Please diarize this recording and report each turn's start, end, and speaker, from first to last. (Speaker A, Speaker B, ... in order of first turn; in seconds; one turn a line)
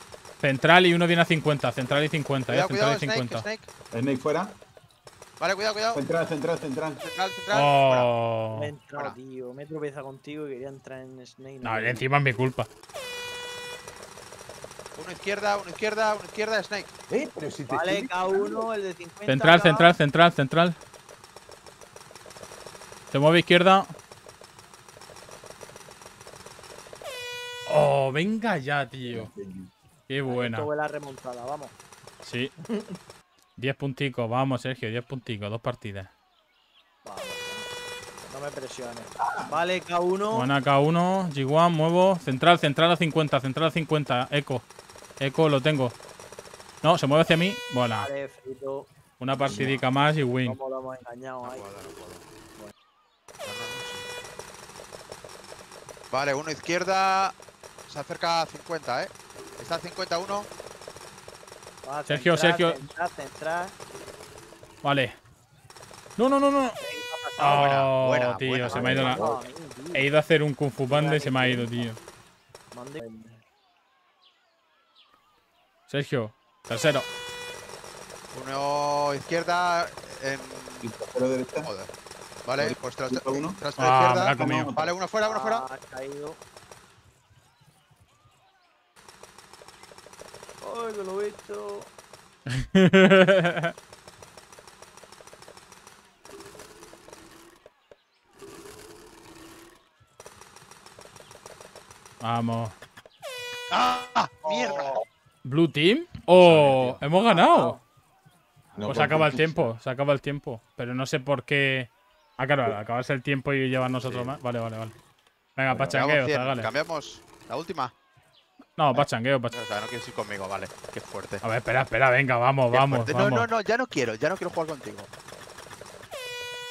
Speaker A: 0.4-3.5
Speaker B: 2.5-3.7
Speaker C: 3.9-4.6
Speaker B: 5.4-6.0
Speaker C: 5.9-7.0
Speaker B: 7.0-8.1
Speaker A: 7.5-8.7
Speaker D: 8.5-12.1
Speaker A: 11.6-12.7
Speaker B: 15.0-16.9
Speaker C: 17.1-18.6
Speaker D: 17.7-19.9
Speaker A: 19.3-20.8
Speaker A: 23.1-23.9
Speaker A: 27.7-29.3
Speaker C: 29.1-29.7
Speaker A: 30.1-30.7
Speaker D: 30.3-31.8
Speaker A: 32.2-32.5
Speaker D: 32.7-33.0
Speaker A: 33.6-36.1
Speaker D: 37.0-37.7
Speaker D: 38.3-40.5
Speaker C: 39.2-39.5
Speaker A: 40.3-44.7
Speaker A: 45.2-46.0
Speaker A: 46.8-48.1
Speaker D: 47.9-48.9
Speaker A: 49.2-50.6
Speaker C: 49.4-49.8
Speaker D: 50.4-51.6
Speaker B: 51.4-52.2
Speaker B: 53.4-54.0
Speaker B: 56.1-60.5
Speaker D: 61.8-63.8
Speaker A: 62.1-62.8
Speaker A: 64.8-65.2
Speaker A: 66.2-66.8
Speaker D: 66.8-67.8
Speaker A: 67.4-69.2
Speaker B: 67.4-68.9
Speaker C: 68.7-69.4
Speaker D: 68.9-70.1
Speaker A: 69.9-72.0
Speaker D: 70.9-71.9
Speaker D: 72.7-73.4
Speaker A: 75.9-77.1
Speaker B: 78.3-80.9
Speaker C: 80.8-81.7
Speaker B: 81.6-81.9
Speaker B: 82.5-85.6
Speaker C: 82.6-83.6
Speaker A: 83.8-84.7
Speaker C: 84.3-85.0
Speaker D: 85.2-86.4
Speaker D: 90.6-91.9
Speaker A: 92.7-93.7
Speaker A: 102.2-102.8
Speaker B: 103.7-105.0
Speaker D: 104.4-105.0
Speaker A: 105.4-107.8
Speaker C: 106.3-107.0
Speaker D: 107.3-107.8
Speaker C: 108.7-109.7
Speaker A: 108.8-114.9
Speaker A: 115.6-116.7
Speaker C: 115.7-116.0
Speaker B: 115.9-117.9
Speaker A: 118.8-119.5
Speaker B: 119.5-121.4
Speaker A: 121.4-123.5
Speaker B: 122.7-125.1